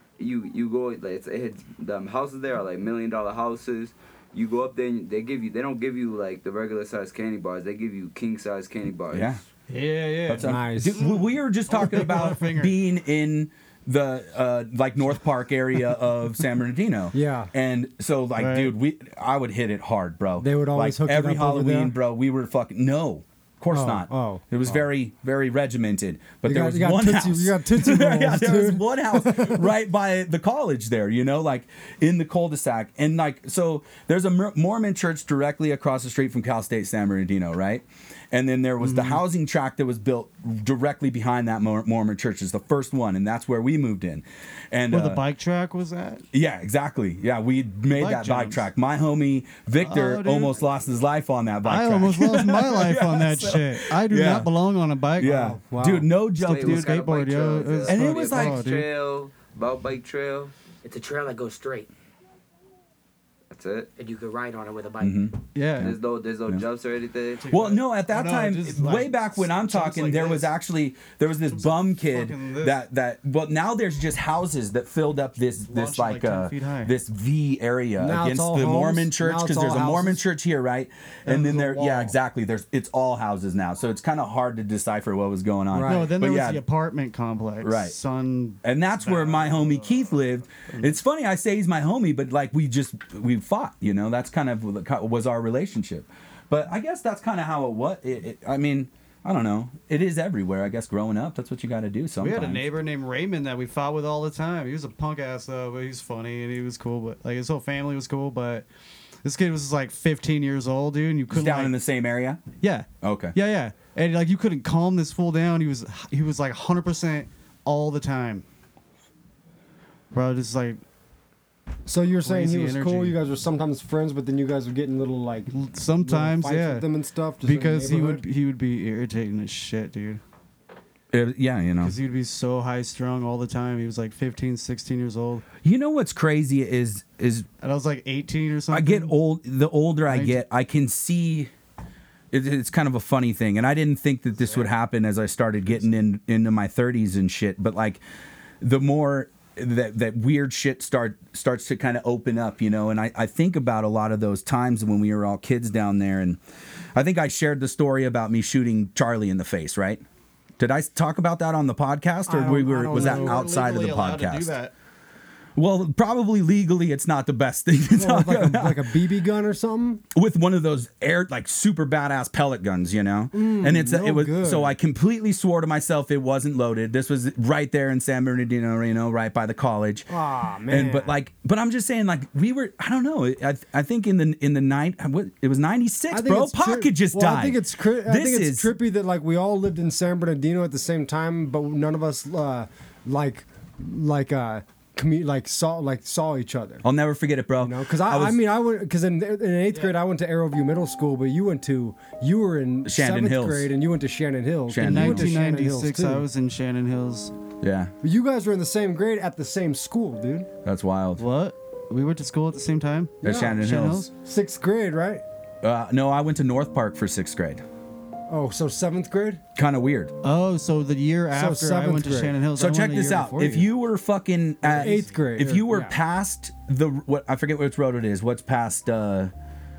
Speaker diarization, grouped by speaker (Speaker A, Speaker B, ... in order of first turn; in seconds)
Speaker A: 0.2-9.4, 56.4-60.5, 63.5-63.9, 65.7-67.5
Speaker B: 9.1-9.4, 10.2-45.2, 46.3-54.5, 55.2-56.9, 57.9-58.6, 65.0-66.0, 67.5-86.6, 87.6-88.0, 88.6-102.6, 111.3-112.4, 113.0-113.3, 131.1-132.0, 135.6-137.5, 138.7-141.5, 142.3-148.0, 148.6-156.4, 156.9-160.0, 160.6-164.5, 165.6-168.9, 170.1-180.1, 180.7-188.7, 196.8-198.4, 202.8-203.7, 204.7-205.3, 207.6-207.9, 210.6-211.2, 213.2-214.1, 215.6-217.6, 219.6-220.1, 222.5-229.3
Speaker C: 9.7-12.7, 18.4-18.7, 38.8-39.2, 44.9-46.2, 47.9-48.6, 49.8-50.6, 51.6-55.4, 56.4-58.9, 65.5-65.9, 67.4-70.5, 71.5-72.8, 75.7-76.9, 81.2-82.1, 85.8-90.9, 102.2-108.7, 109.2-111.7, 112.6-118.4, 120.1-120.8, 122.2-123.2, 125.5-126.8, 127.4-130.2, 131.8-135.4, 137.6-139.1, 140.1-140.4, 162.9-164.7, 204.8-207.3, 211.2-214.1, 220.2-223.6, 224.6-225.6
Speaker D: 10.4-11.0, 17.1-17.5, 20.4-21.9, 23.7-24.8, 26.4-29.7, 55.2-56.1, 78.0-80.2, 85.7-86.1, 121.8-128.2, 162.3-163.5, 167.9-170.0, 173.3-174.7, 180.1-181.1, 186.1-196.8, 197.6-206.2, 208.0-210.5, 213.2-215.2, 218.3-219.4, 221.3-222.4, 223.3-223.6, 224.8-225.9
Speaker E: 60.8-61.9, 64.0-65.2